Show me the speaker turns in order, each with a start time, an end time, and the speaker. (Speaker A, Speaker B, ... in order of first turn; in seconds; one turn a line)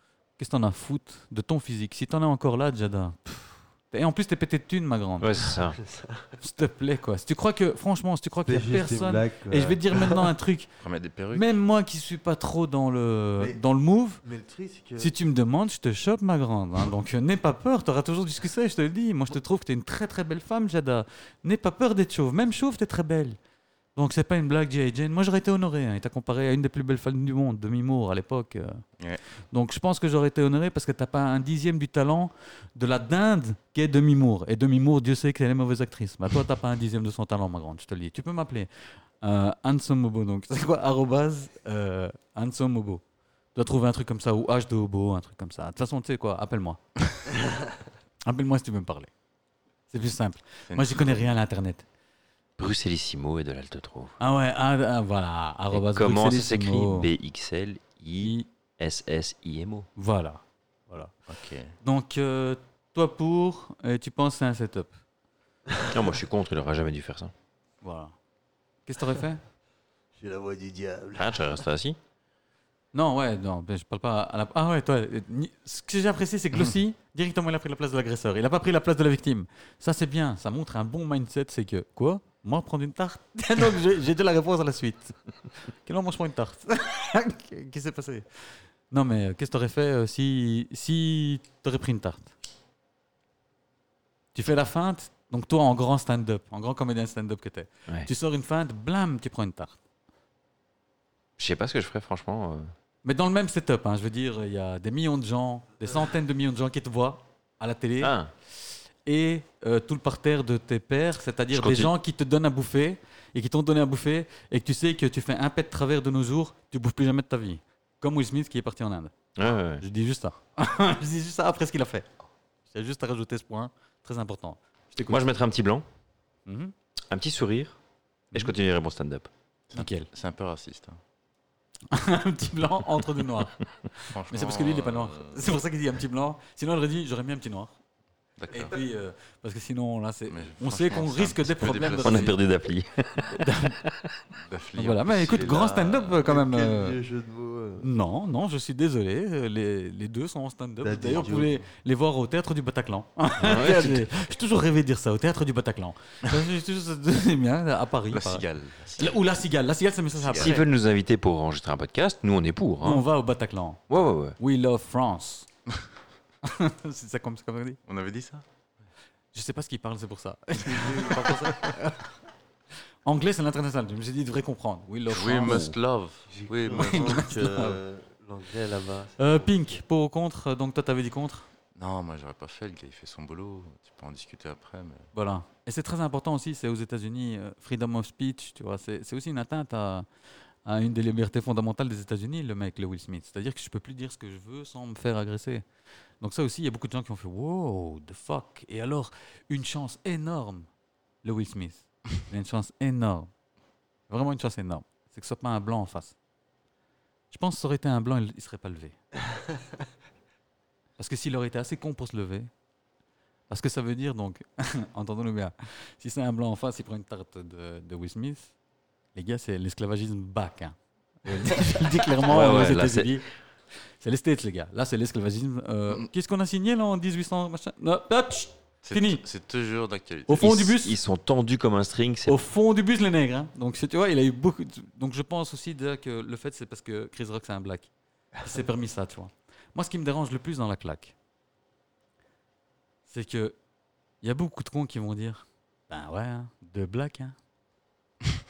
Speaker A: 0.4-5.5
Speaker B: 5.2-5.8
Speaker C: 5.7-6.3
Speaker A: 6.4-10.7
Speaker C: 8.4-10.3
Speaker D: 10.8-11.5
Speaker A: 11.3-14.2
Speaker C: 14.2-15.1
Speaker A: 15.0-23.4
Speaker A: 24.0-28.8
Speaker A: 29.5-43.0
Speaker A: 43.5-46.8
Speaker A: 48.3-49.1
Speaker A: 49.9-51.9
Speaker D: 50.7-51.3
Speaker B: 52.6-54.2
Speaker A: 54.2-57.1
Speaker B: 55.7-59.9
Speaker A: 58.2-58.5
Speaker A: 60.0-61.1
Speaker D: 61.3-61.8
Speaker A: 61.8-64.9
Speaker B: 65.8-67.3
Speaker A: 67.8-68.2
Speaker A: 68.9-69.4
Speaker C: 70.2-71.6
Speaker B: 71.2-72.0
Speaker A: 72.9-92.3
Speaker A: 94.3-99.8
Speaker B: 101.4-102.7
Speaker A: 103.0-108.2
Speaker B: 108.0-108.3
Speaker A: 109.0-119.1
Speaker B: 111.5-111.9
Speaker B: 119.4-119.8
Speaker A: 119.8-122.1
Speaker A: 122.7-125.2
Speaker B: 125.0-125.8
Speaker A: 126.5-126.7
Speaker B: 127.1-127.8
Speaker B: 128.3-129.3
Speaker D: 129.7-131.0
Speaker A: 129.7-130.1
Speaker A: 131.9-137.7
Speaker D: 134.1-135.4
Speaker D: 138.4-138.8
Speaker A: 138.5-142.4
Speaker D: 140.3-142.4
Speaker B: 141.8-144.1
Speaker A: 143.4-143.8
Speaker D: 144.4-146.2
Speaker A: 144.8-147.0
Speaker C: 146.2-147.9
Speaker A: 147.8-160.7
Speaker C: 150.8-151.6
Speaker B: 153.4-154.1
Speaker D: 158.1-159.2
Speaker D: 160.2-160.7
Speaker B: 160.3-163.1
Speaker A: 162.8-165.5
Speaker B: 163.9-164.4
Speaker A: 166.4-167.8
Speaker D: 167.9-168.4
Speaker A: 169.3-172.1
Speaker C: 170.7-171.4
Speaker D: 170.9-171.7
Speaker A: 173.1-175.7
Speaker D: 175.1-177.3
Speaker B: 175.5-175.7
Speaker C: 176.3-179.6
Speaker A: 176.7-177.8
Speaker A: 179.2-181.5
Speaker D: 181.8-185.1
Speaker A: 185.1-190.1
Speaker A: 190.7-195.7
Speaker A: 196.2-200.7
Speaker A: 201.2-203.3
Speaker A: 204.1-206.2
Speaker A: 207.3-209.0
Speaker A: 211.0-212.5
Speaker A: 213.5-218.5
Speaker A: 219.2-229.2
Speaker B: 222.2-223.2
Speaker D: 228.8-230.5
Speaker A: 230.3-231.0
Speaker B: 230.4-232.4
Speaker A: 232.3-241.1
Speaker A: 243.1-243.6
Speaker A: 244.2-247.4